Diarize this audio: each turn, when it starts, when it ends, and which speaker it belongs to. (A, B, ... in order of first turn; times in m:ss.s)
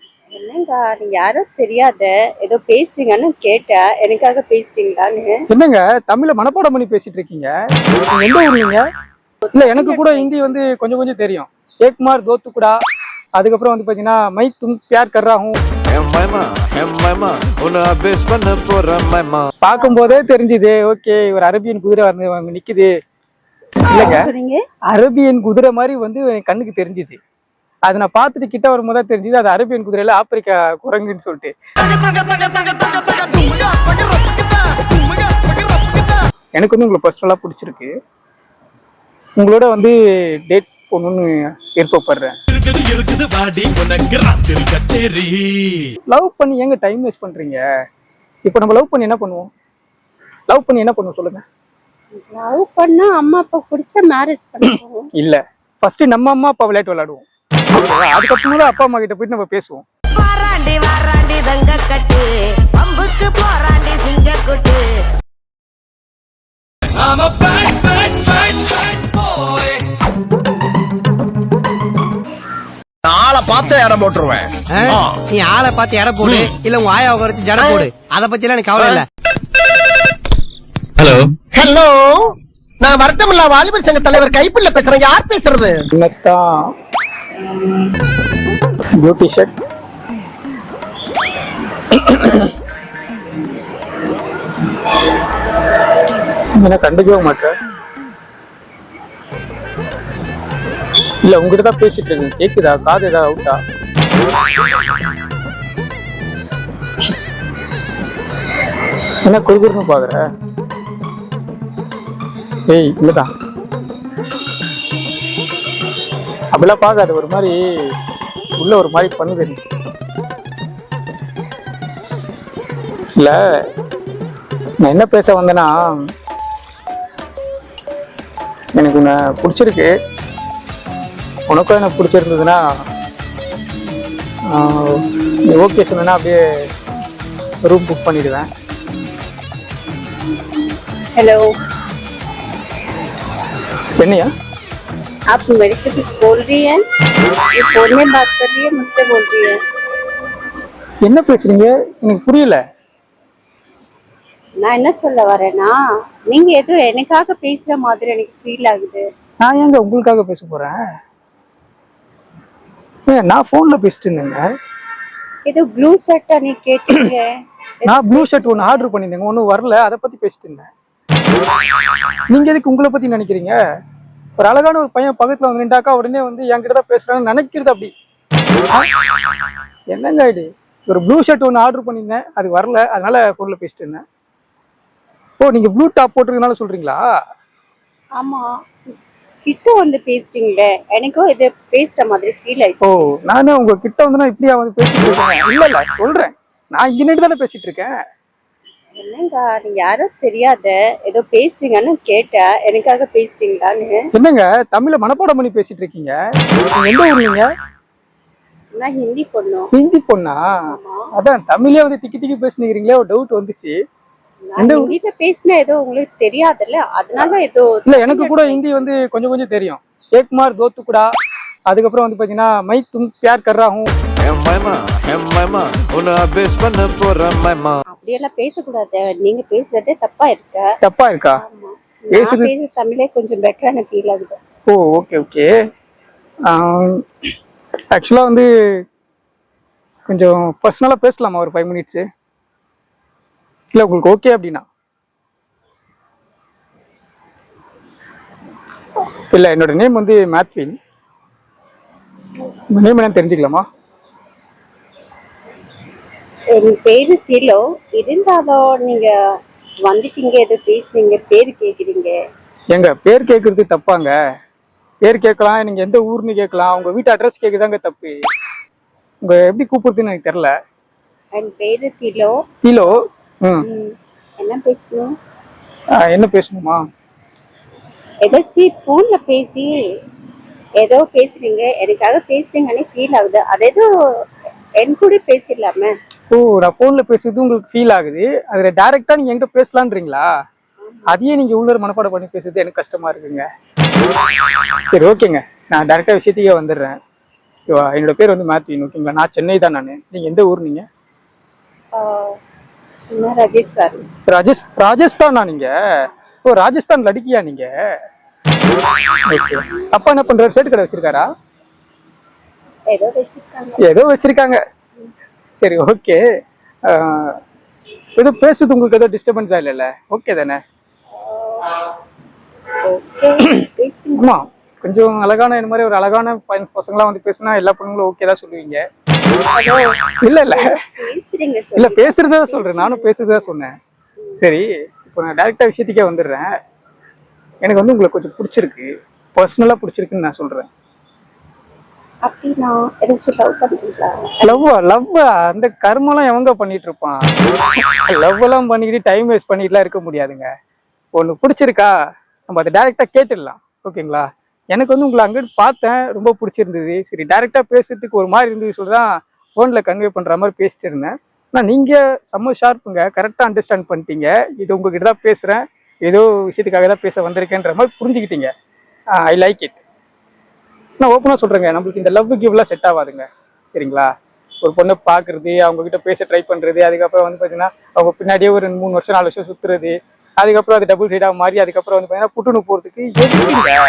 0:00.3-0:05.3 A
0:05.5-0:07.5 B
0:08.1-0:08.8 B
0:09.4-0:10.6 A
0:09.5-0:12.7 B
0:13.4-0:15.6 B
0:15.9-0:19.4 C
0:19.6-0:22.9 B
0:19.6-0:20.2 A
0:23.9-0:24.2 B
0:23.9-0:24.6 A
0:24.9-0:27.2 B
0:27.9-0:31.5 B
0:32.0-0:36.1 D
0:36.6-0:37.9 B
0:39.4-0:42.3 B
0:42.6-0:45.9 E
0:46.1-0:47.6 B
0:48.4-0:49.5 B
0:50.5-0:51.4 B
0:52.2-0:55.1 A
0:55.2-0:59.8 B
1:00.2-1:00.5 F
1:00.3-1:02.2 G
1:02.8-1:04.7 G
1:07.0-1:09.1 E
1:13.0-1:15.2 D
1:14.7-1:19.0 F
1:17.6-1:17.8 D
1:21.0-1:22.3 D
1:22.8-1:25.8 D
1:25.9-1:26.4 B
1:29.0-1:29.5 B
1:31.9-1:32.5 B
1:36.6-1:37.5 B
1:41.2-1:43.6 B
1:49.2-1:50.2 B
1:52.7-1:53.3 B
1:56.5-1:57.6 B
1:58.6-1:59.6 B
2:04.8-2:05.7 B
2:08.8-2:09.9 B
2:11.5-2:12.6 B
2:14.5-2:16.4 B
2:17.6-2:18.5 B
2:21.2-2:21.4 A
2:24.0-2:24.3 B
2:25.3-2:26.8 A
2:27.6-2:29.5 A
2:31.0-2:32.6 B
2:34.6-2:35.7 A
2:36.3-2:39.0 A
2:39.4-2:40.8 B
2:43.1-2:44.4 B
2:45.5-2:47.3 A
2:47.8-2:48.9 A
2:47.9-2:50.7 B
2:52.3-2:53.6 B
2:54.4-2:57.9 B
2:59.9-3:04.0 B
3:05.4-3:07.0 B
3:08.2-3:08.9 A
3:09.4-3:13.1 A
3:12.8-3:17.9 B
3:19.0-3:24.0 A
3:24.1-3:26.2 B
3:26.8-3:27.5 B
3:28.8-3:29.7 A
3:29.7-3:30.4 B
3:30.7-3:31.1 A
3:31.2-3:33.7 B
3:34.5-3:38.8 A
3:34.6-3:34.9 B
3:37.9-3:41.1 B
3:41.7-3:43.9 B
3:44.3-3:47.7 C
3:47.9-3:50.6 A
3:50.8-3:51.4 B
3:51.4-3:54.4 A
3:52.1-3:52.5 B
3:54.7-3:55.5 B
3:56.5-3:57.0 B
3:57.9-3:58.5 B
4:00.1-4:02.0 B
4:03.7-4:04.6 B
4:09.3-4:10.7 B
4:12.7-4:13.6 B
4:16.5-4:19.1 A
4:19.9-4:22.1 A
4:22.7-4:24.1 B
4:25.0-4:28.1 B
4:29.2-4:30.5 B
4:31.3-4:32.4 A
4:32.6-4:32.9 B
4:33.6-4:35.1 A
4:36.0-4:36.8 B
4:38.2-4:39.7 A
4:40.8-4:43.9 A
4:44.8-4:45.9 A
4:46.3-4:50.3 B
4:50.8-4:51.2 A
4:51.1-4:53.4 B
4:54.9-4:57.0 B
4:57.7-5:00.8 B
5:01.9-5:02.4 A
5:03.1-5:04.0 A
5:04.3-5:05.7 B
5:06.4-5:07.7 B
5:09.3-5:11.2 B
5:12.9-5:13.8 A
5:13.8-5:14.6 B
5:15.6-5:16.2 B
5:16.9-5:17.4 B
5:18.2-5:20.6 B
5:21.1-5:21.8 A
5:22.8-5:24.3 A
5:24.2-5:28.8 B
5:29.5-5:29.9 A
5:30.2-5:30.7 B
5:30.5-5:33.5 A
5:31.8-5:33.7 B
5:34.4-5:36.5 B
5:37.6-5:40.7 B
5:42.2-5:44.6 A
5:44.4-5:47.2 B
5:48.1-5:50.5 B
5:51.2-5:51.9 B
5:52.5-6:08.5 B
6:09.2-6:09.8 B
6:11.0-6:14.1 B
6:14.6-6:23.8 B